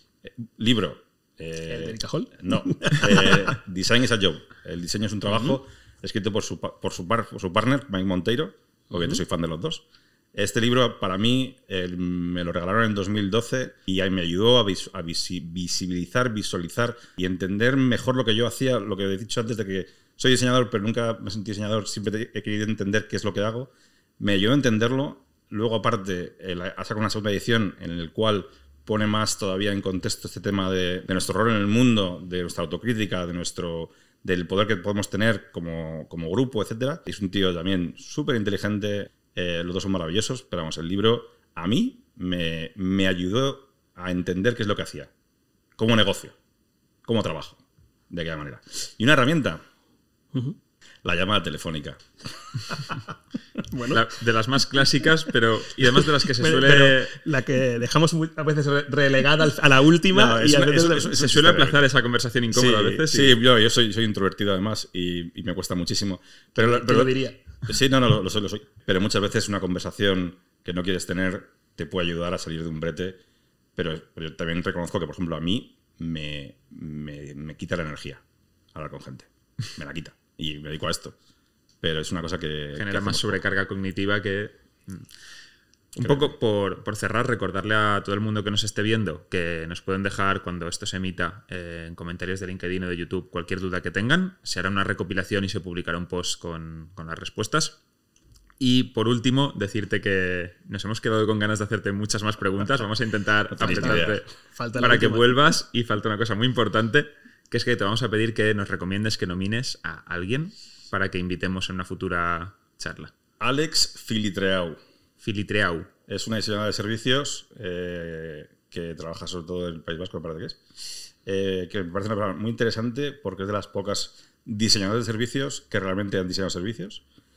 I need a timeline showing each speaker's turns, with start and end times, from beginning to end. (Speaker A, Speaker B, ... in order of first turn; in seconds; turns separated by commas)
Speaker A: 0.2-45.1, Speaker B: 1.7-3.5, Speaker A: 45.8-46.4, Speaker A: 47.0-47.6, Speaker A: 48.1-49.6, Speaker A: 51.0-52.0, Speaker B: 53.7-54.1, Speaker C: 53.9-57.2, Speaker B: 56.4-61.2, Speaker A: 60.1-61.9, Speaker C: 60.5-63.4, Speaker A: 62.5-67.1, Speaker B: 66.6-67.5, Speaker A: 67.7-73.2, Speaker A: 73.8-78.2, Speaker A: 78.7-81.2, Speaker A: 81.8-83.4, Speaker C: 82.7-85.1, Speaker C: 86.0-97.8, Speaker A: 86.0-86.3, Speaker C: 98.6-113.1, Speaker A: 103.5-104.2, Speaker B: 103.7-105.3, Speaker A: 113.4-114.8, Speaker C: 115.2-115.9, Speaker A: 116.1-120.6, Speaker A: 121.2-127.0